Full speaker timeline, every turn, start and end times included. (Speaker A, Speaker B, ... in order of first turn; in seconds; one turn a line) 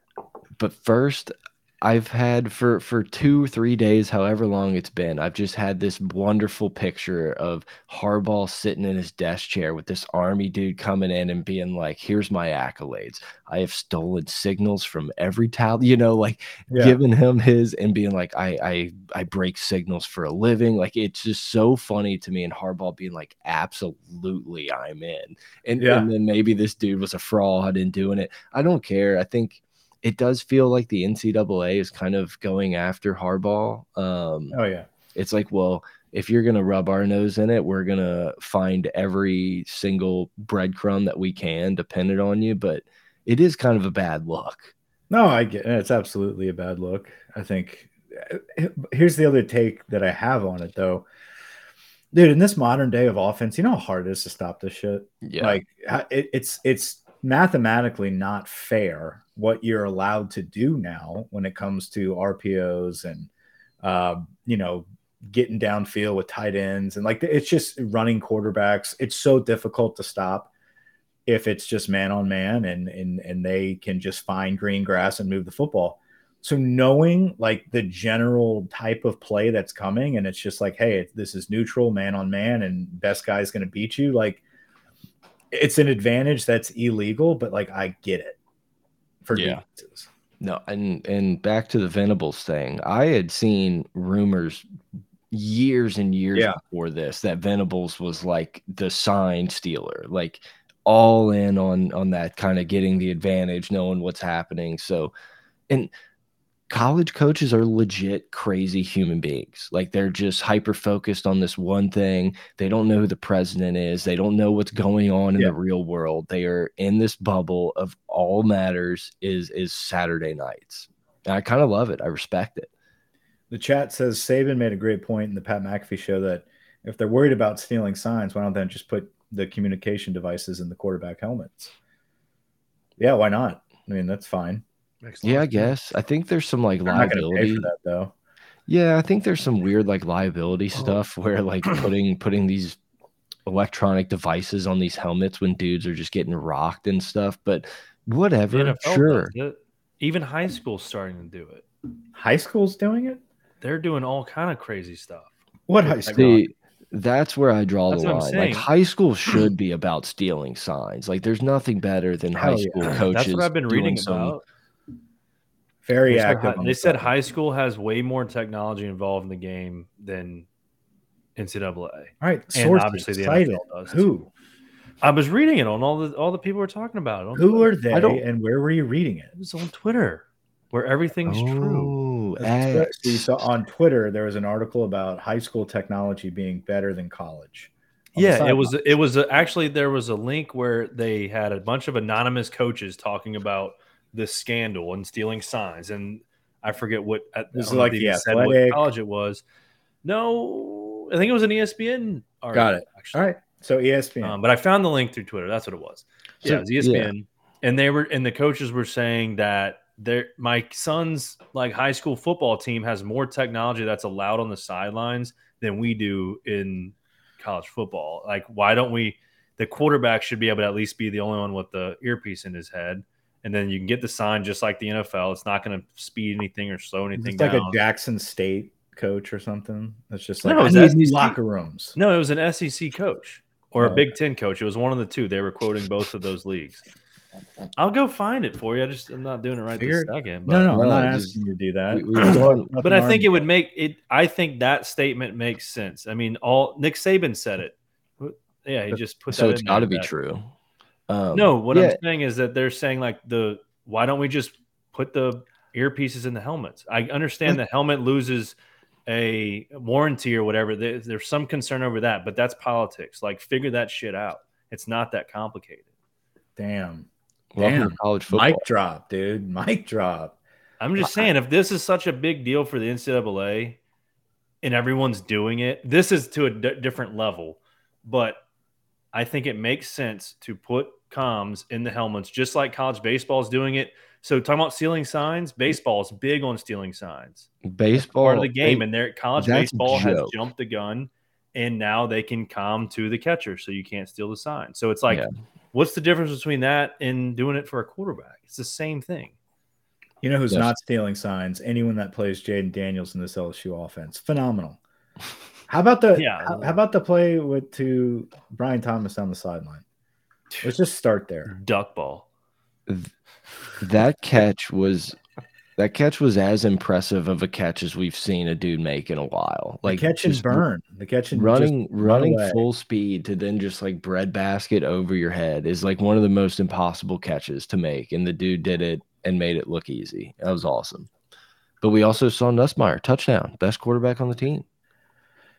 Speaker A: 0.6-34.6
Speaker B: 16.7-17.0
Speaker B: 25.8-26.1
Speaker B: 34.5-34.9
Speaker A: 35.1-44.7
Speaker B: 45.1-51.0
Speaker B: 52.1-63.3
Speaker A: 55.2-55.6
Speaker B: 63.8-70.5
Speaker B: 71.2-84.4
Speaker B: 85.5-88.4
Speaker B: 89.2-90.1
Speaker A: 89.3-89.6
Speaker A: 90.4-94.7
Speaker A: 95.3-105.1
Speaker A: 106.7-122.7
Speaker B: 123.5-131.7
Speaker B: 133.0-134.6
Speaker C: 135.0-135.7
Speaker A: 135.2-137.7
Speaker B: 136.9-138.1
Speaker A: 138.7-142.8
Speaker A: 143.4-149.3
Speaker C: 148.5-151.6
Speaker B: 152.1-153.2
Speaker C: 153.6-155.3
Speaker B: 155.7-156.4
Speaker A: 155.8-164.4
Speaker C: 157.9-158.7
Speaker B: 162.4-163.0
Speaker C: 162.8-164.4
Speaker B: 165.8-167.1
Speaker C: 166.1-170.5
Speaker C: 171.3-174.0
Speaker B: 172.2-174.3
Speaker C: 175.0-177.8
Speaker B: 177.4-179.3
Speaker A: 177.9-178.2
Speaker C: 179.3-181.9
Speaker A: 181.3-183.3
Speaker B: 182.4-188.8
Speaker C: 188.2-199.4
Speaker B: 197.5-198.9
Speaker C: 200.0-203.3
Speaker B: 202.5-204.4
Speaker C: 204.2-227.8
Speaker A: 206.4-207.1
Speaker B: 227.2-231.9
Speaker C: 230.4-231.3
Speaker C: 231.9-236.8
Speaker B: 233.8-234.1
Speaker C: 237.8-240.8
Speaker B: 239.7-243.4
Speaker A: 240.7-241.4
Speaker A: 241.9-242.7
Speaker C: 242.8-250.1
Speaker A: 249.3-250.5
Speaker A: 251.1-252.0
Speaker C: 251.3-265.9
Speaker B: 266.6-270.4
Speaker A: 267.5-268.6
Speaker C: 270.8-273.8
Speaker A: 271.0-271.3
Speaker C: 274.6-278.4
Speaker C: 279.1-299.3
Speaker A: 287.6-288.9
Speaker A: 289.4-290.3
Speaker B: 300.2-304.8
Speaker B: 305.7-309.8
Speaker C: 306.1-306.8
Speaker B: 310.6-311.5
Speaker C: 311.4-312.3
Speaker A: 312.9-313.1
Speaker A: 313.8-315.2
Speaker A: 315.8-320.6
Speaker B: 319.9-322.6
Speaker A: 321.3-331.1
Speaker A: 331.8-334.6